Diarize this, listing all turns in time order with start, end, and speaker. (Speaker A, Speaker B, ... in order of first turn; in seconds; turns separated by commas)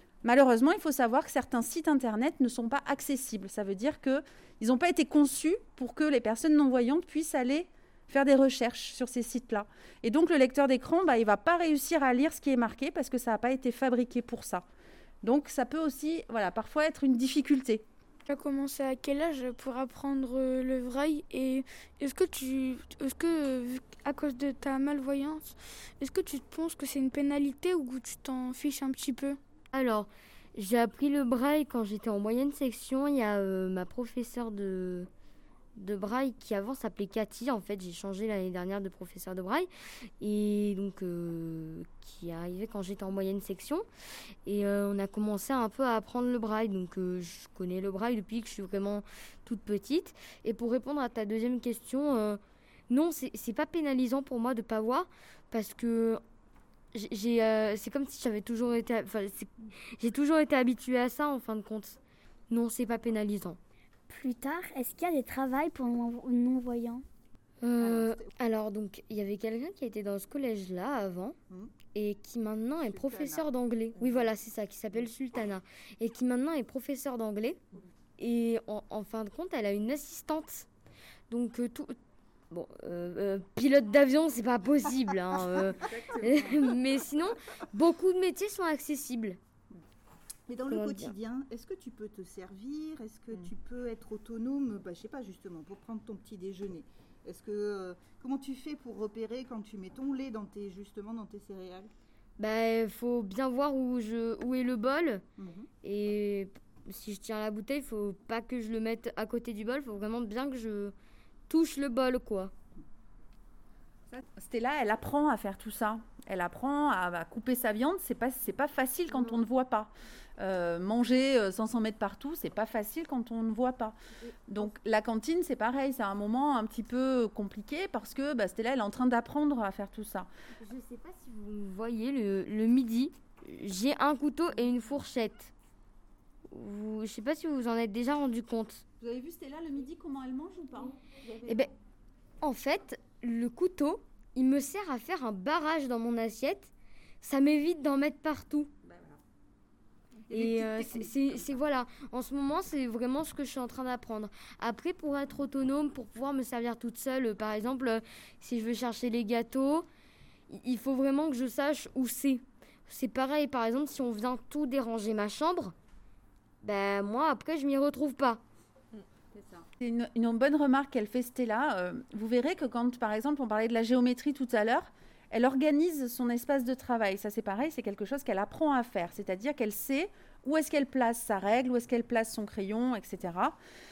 Speaker A: 0.2-14.6, Speaker A: 15.2-17.8, Speaker B: 18.3-29.4, Speaker C: 29.7-35.1, Speaker C: 35.8-39.7, Speaker C: 40.2-43.9, Speaker C: 44.5-56.2, Speaker C: 56.9-62.0, Speaker C: 62.5-63.6, Speaker D: 64.1-67.0, Speaker C: 67.6-71.4, Speaker E: 67.8-68.3, Speaker C: 71.9-77.6, Speaker E: 72.8-73.5, Speaker C: 78.2-80.7, Speaker C: 81.3-82.0, Speaker C: 82.5-89.4, Speaker E: 90.5-101.9, Speaker C: 90.7-91.2, Speaker C: 102.4-105.2, Speaker E: 105.4-105.7, Speaker C: 105.8-110.9, Speaker C: 111.5-112.5, Speaker A: 114.3-124.0, Speaker A: 124.5-130.3, Speaker C: 130.6-135.5, Speaker C: 136.5-138.8, Speaker A: 139.0-141.7, Speaker C: 142.4-146.7, Speaker C: 147.2-148.7, Speaker A: 148.8-149.2, Speaker E: 150.3-151.4, Speaker C: 150.3-159.8, Speaker C: 160.5-165.7, Speaker C: 166.6-168.4, Speaker A: 169.3-183.6